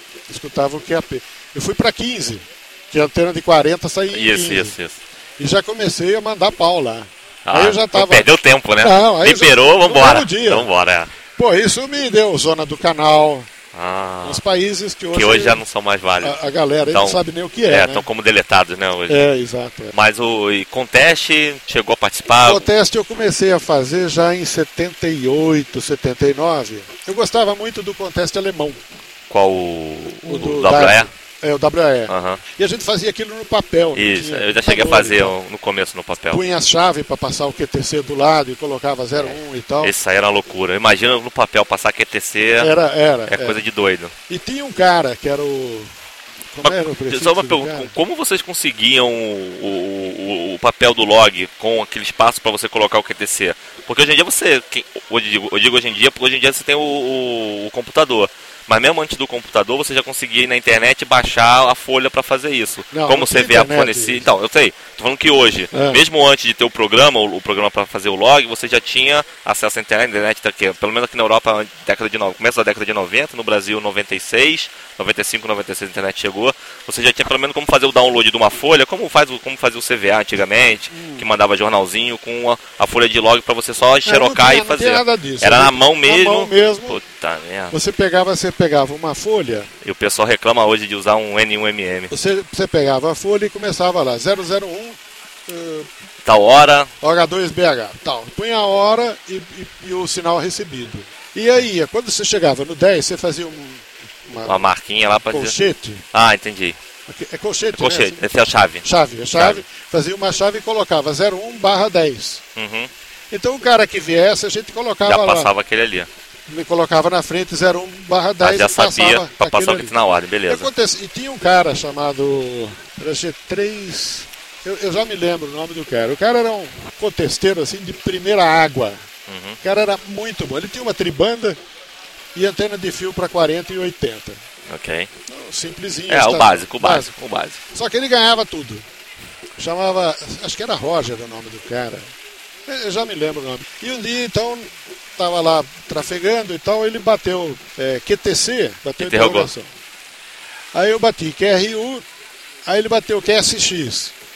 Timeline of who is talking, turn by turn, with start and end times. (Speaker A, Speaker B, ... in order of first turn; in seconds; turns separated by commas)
Speaker A: 0.3-4.8, Speaker B: 4.1-5.0, Speaker A: 5.4-8.3, Speaker B: 7.5-11.1, Speaker A: 8.8-10.7, Speaker A: 11.3-13.5, Speaker B: 13.7-14.4, Speaker A: 14.2-15.6, Speaker B: 15.1-16.4, Speaker A: 16.2-18.0, Speaker B: 16.9-19.2, Speaker A: 19.1-19.9, Speaker B: 19.9-22.7, Speaker A: 22.4-28.8, Speaker B: 29.3-31.1, Speaker A: 30.2-35.4, Speaker B: 32.1-32.4, Speaker B: 33.9-36.4, Speaker A: 36.3-39.9, Speaker B: 39.1-42.7, Speaker A: 42.6-43.6, Speaker B: 43.3-44.1, Speaker A: 44.3-45.9, Speaker A: 46.5-47.9, Speaker B: 46.6-87.7, Speaker A: 62.9-64.3, Speaker A: 65.7-66.0, Speaker A: 80.9-81.2, Speaker A: 84.0-87.0, Speaker A: 87.7-89.7, Speaker B: 89.8-92.1, Speaker A: 92.1-95.9, Speaker B: 96.2-96.9, Speaker A: 97.0-104.7, Speaker B: 104.5-105.5, Speaker A: 105.2-106.0, Speaker B: 106.1-106.8, Speaker A: 107.1-108.2, Speaker B: 107.8-109.6, Speaker A: 108.8-112.4, Speaker B: 112.5-112.9, Speaker A: 113.3-115.5, Speaker B: 115.0-116.1, Speaker A: 116.5-129.0, Speaker B: 118.4-120.7, Speaker B: 129.3-129.6, Speaker A: 129.6-131.6, Speaker A: 132.3-134.4, Speaker B: 134.7-135.1, Speaker A: 135.3-137.1, Speaker B: 136.1-137.6, Speaker A: 137.7-138.8, Speaker A: 139.6-142.1, Speaker A: 142.7-149.7, Speaker B: 149.0-149.5, Speaker A: 150.7-152.0, Speaker A: 152.7-154.1